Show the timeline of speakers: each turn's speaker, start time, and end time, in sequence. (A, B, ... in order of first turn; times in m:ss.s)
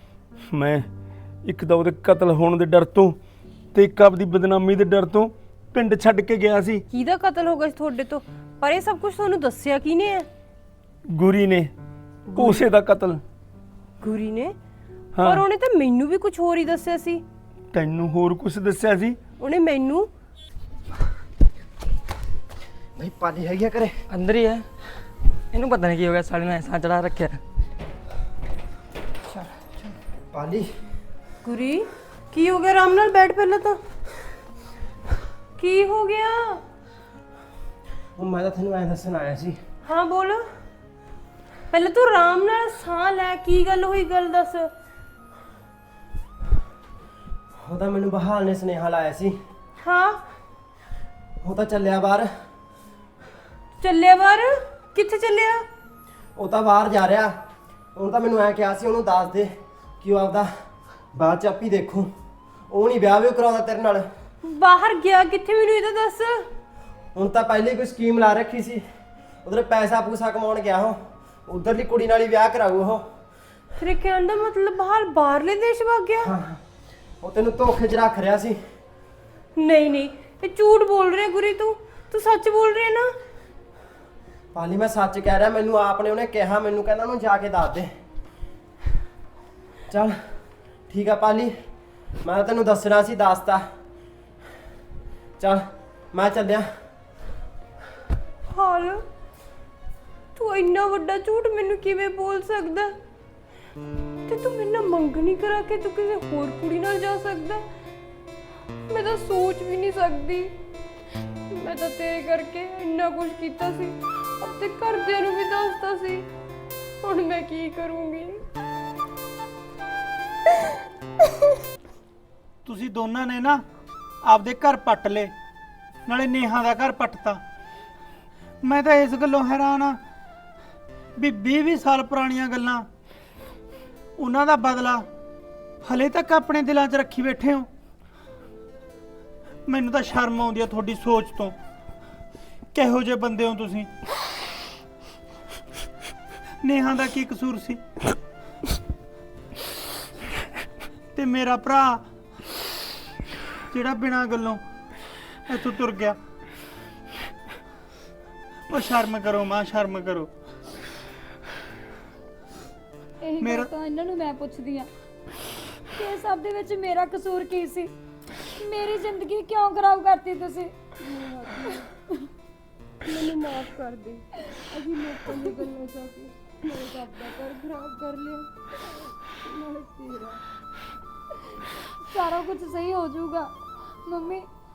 0:00.5-0:00.8 A
0:01.4-0:03.2 A
0:03.7-0:06.8 A
0:06.9-0:10.3 B
0:11.1-0:11.7 A
0:12.3-0:12.6 B
0:12.3-0:13.2 A
0:14.0-0:14.5 B
0:15.2-0:15.4 A
0:15.2-0:17.2 B
0:17.7-0:19.2 A
0:19.4-0:20.1 B
0:23.0-0:24.0 C
0:24.1-0:24.7 D
0:25.5-0:27.4 D
0:29.3-0:29.9 E
0:30.3-0:30.7 C
0:31.4-0:33.8 B
0:35.6-0:36.6 B
0:38.2-0:39.6 C
0:39.8-0:40.4 B
0:41.7-0:44.7 B
0:47.6-0:49.4 C
0:49.8-0:50.2 B
0:51.4-0:52.3 C
0:53.8-0:55.7 B
0:56.4-0:57.3 C
0:58.0-1:00.5 C
1:01.2-1:02.1 C
1:02.7-1:04.0 C
1:04.4-1:06.4 B
1:07.2-1:08.8 C
1:09.4-1:13.0 C
1:13.8-1:16.3 B
1:16.2-1:16.6 C
1:17.2-1:18.6 C
1:19.6-1:23.1 B
1:24.5-1:27.9 C
1:29.9-1:30.2 C
1:30.9-1:31.5 C
1:32.2-1:33.6 C
1:35.4-1:36.7 C
1:38.5-1:39.0 B
1:40.4-1:43.0 B
1:44.3-1:47.6 B
1:48.9-1:50.5 B
1:51.5-1:56.3 B
1:57.0-1:58.4 B
2:02.6-2:03.6 E
2:04.2-2:05.3 E
2:06.1-2:07.4 E
2:08.6-2:10.0 E
2:11.2-2:12.9 E
2:14.2-2:15.1 E
2:15.8-2:17.7 E
2:19.7-2:21.6 E
2:22.7-2:23.9 E
2:26.6-2:28.1 E
2:31.2-2:32.0 E
2:33.7-2:34.6 E
2:35.5-2:36.2 E
2:38.7-2:40.3 E
2:43.2-2:44.9 F
2:43.4-2:43.7 E
2:46.0-2:50.8 F
2:51.0-2:51.8 B
2:53.0-2:58.5 B
2:59.3-3:00.4 B
3:02.0-3:04.5 F